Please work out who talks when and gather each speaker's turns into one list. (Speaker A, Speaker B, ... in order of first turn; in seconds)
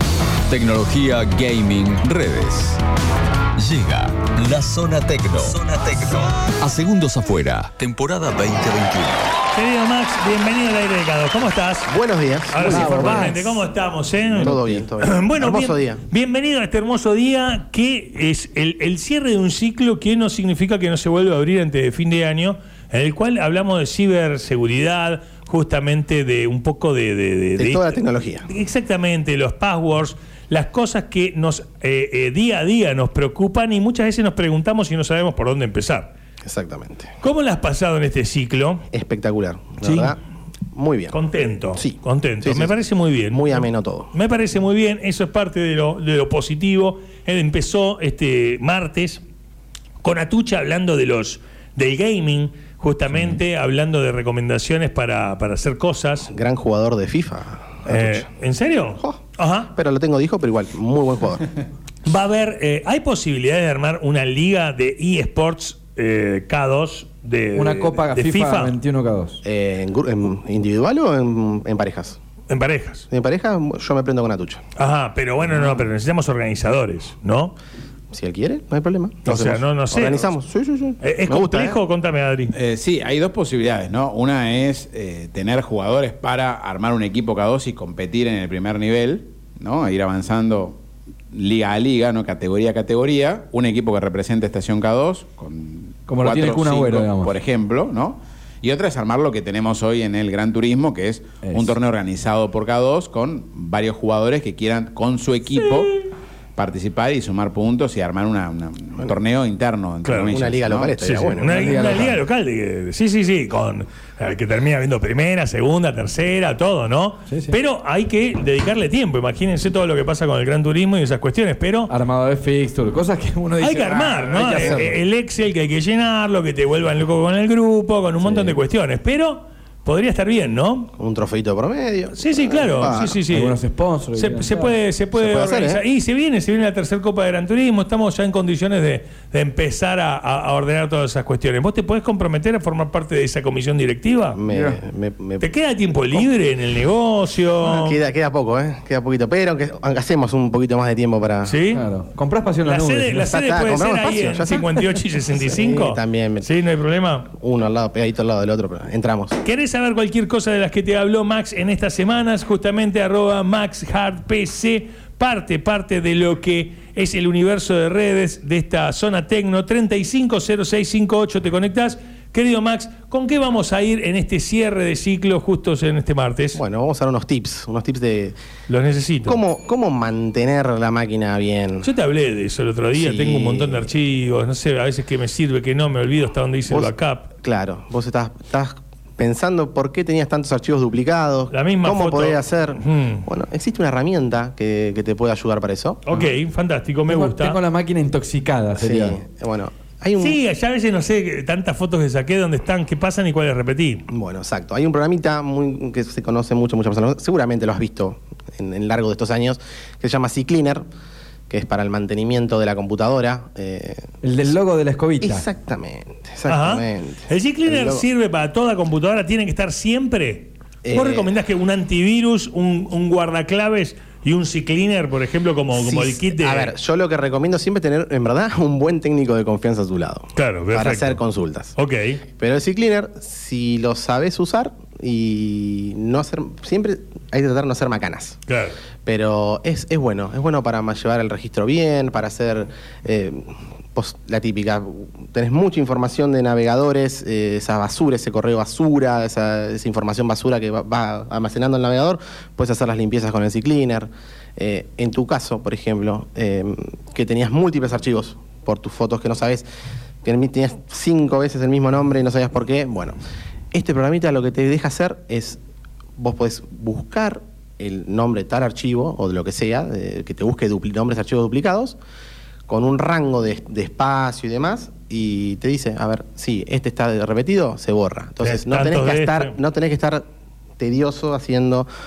Speaker A: 0.5-2.8, 3.6-9.3
Speaker B: 9.5-11.9, 12.5-36.1, 37.2-38.8, 39.8-40.1, 41.1-49.2, 50.0-56.3, 57.9-59.7, 62.0-68.7, 72.5-73.0, 74.8-77.5, 79.2-80.3, 81.0-82.5, 110.0-110.3, 111.0-121.9, 123.6-130.9, 132.1-133.6, 134.1-144.4, 145.4-148.0, 151.4-151.8, 152.7-157.3, 159.4-176.6, 178.7-179.4, 181.8-187.3, 191.5-193.2, 196.1-197.6, 200.2-204.0, 216.5-226.7, 230.3-231.2, 231.8-232.2, 238.5-238.8, 278.4-279.5
Speaker C: 11.9-13.3, 14.4-16.0, 27.6-28.5, 36.4-37.1, 38.9-40.2, 40.7-41.2, 41.8-44.1, 56.3-58.3, 59.0-61.5, 69.4-72.2, 73.1-74.6, 78.1-81.8, 110.3-112.0, 124.4-124.8, 131.0-133.2, 135.1-135.8, 144.3-145.5, 147.6-151.6, 153.2-154.8, 155.3-156.5, 157.3-159.4, 176.5-178.3, 179.2-181.9, 182.9-183.9, 186.7-196.0, 198.7-200.4, 204.1-210.8, 211.5-214.1, 215.2-218.1, 220.8-221.3, 225.7-231.8, 232.4-238.4, 239.0-259.6, 260.2-263.1, 263.7-265.6, 266.2-272.0, 272.7-280.2, 280.8-281.9
Speaker D: 12.7-13.6, 14.3-14.8, 67.5-69.4, 96.1-97.3, 101.4-101.7, 111.5-112.2, 117.3-117.5, 121.9-125.0, 128.2-128.6, 133.3-134.7, 144.5-144.8, 151.7-153.3, 197.1-199.2, 214.2-215.4
Speaker E: 82.5-90.8, 91.3-106.0, 106.5-110.9